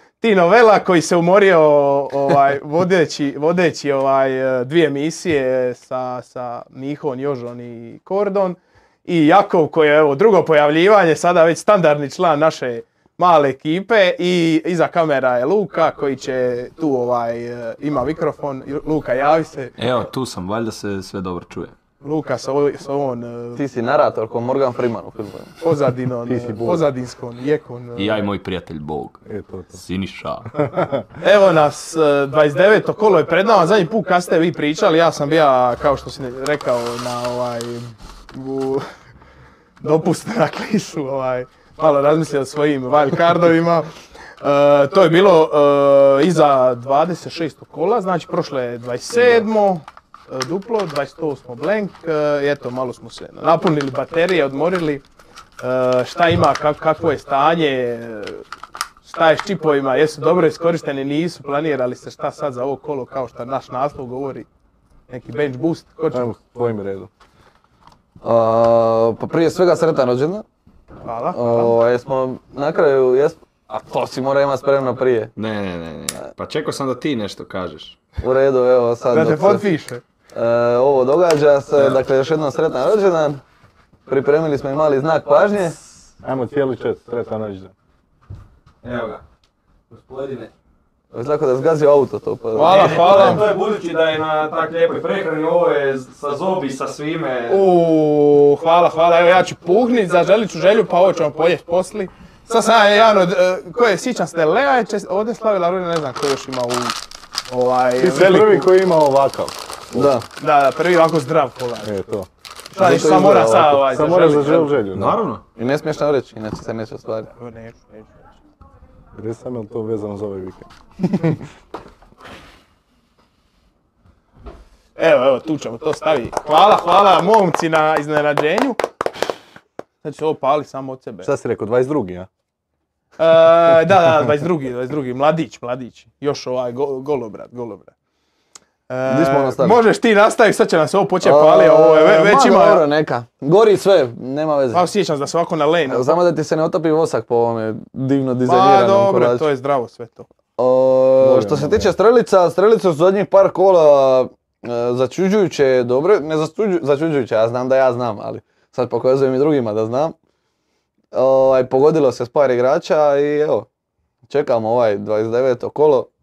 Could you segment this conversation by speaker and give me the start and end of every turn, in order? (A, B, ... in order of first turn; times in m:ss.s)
0:00.2-0:19.7 A
0:19.8-0:21.8 B
0:22.0-0:23.6 A
0:23.6-0:25.5 C
0:25.6-0:28.2 A
0:26.2-0:26.9 D
0:28.0-0:29.2 B
0:29.2-0:29.8 D
0:29.7-0:30.6 B
0:30.6-0:31.0 D
0:31.2-0:38.9 A
0:39.8-0:43.9 A
0:44.4-0:55.0 A
0:55.6-0:58.4 A
0:59.0-1:04.5 A
1:05.1-1:06.4 A
1:06.1-1:07.1 D
1:08.2-1:10.4 C
1:11.0-1:11.8 A
1:11.3-1:15.3 C
1:15.4-1:18.0 B
1:18.2-1:19.6 C
1:19.1-1:20.0 A
1:20.3-1:23.4 C
1:24.1-1:25.8 C
1:26.2-1:27.7 D
1:28.8-1:29.2 B
1:30.1-1:30.5 B
1:31.1-1:33.4 C
1:32.5-1:33.5 A
1:32.6-1:37.6 E
1:37.5-1:47.0 A
1:47.5-1:48.7 A
1:48.0-1:50.1 D
1:49.9-1:50.2 C
1:50.4-1:52.0 A
1:51.8-1:52.3 D
1:52.7-1:54.8 A
1:52.7-1:54.5 C
1:53.8-1:55.2 D
1:54.9-1:55.4 B
1:55.6-1:57.3 C
1:57.3-1:58.1 A
1:59.1-2:00.7 D
2:05.0-2:08.8 A
2:10.0-2:11.3 A
2:11.2-2:12.3 D
2:13.2-2:17.9 A
2:18.9-2:22.8 A
2:19.0-2:19.8 C
2:21.2-2:24.8 C
2:24.7-2:26.2 A
2:25.9-2:29.4 C
2:28.4-2:30.3 A
2:30.6-2:40.1 C
2:31.2-2:31.9 D
2:41.1-2:43.7 C
2:44.3-2:46.1 C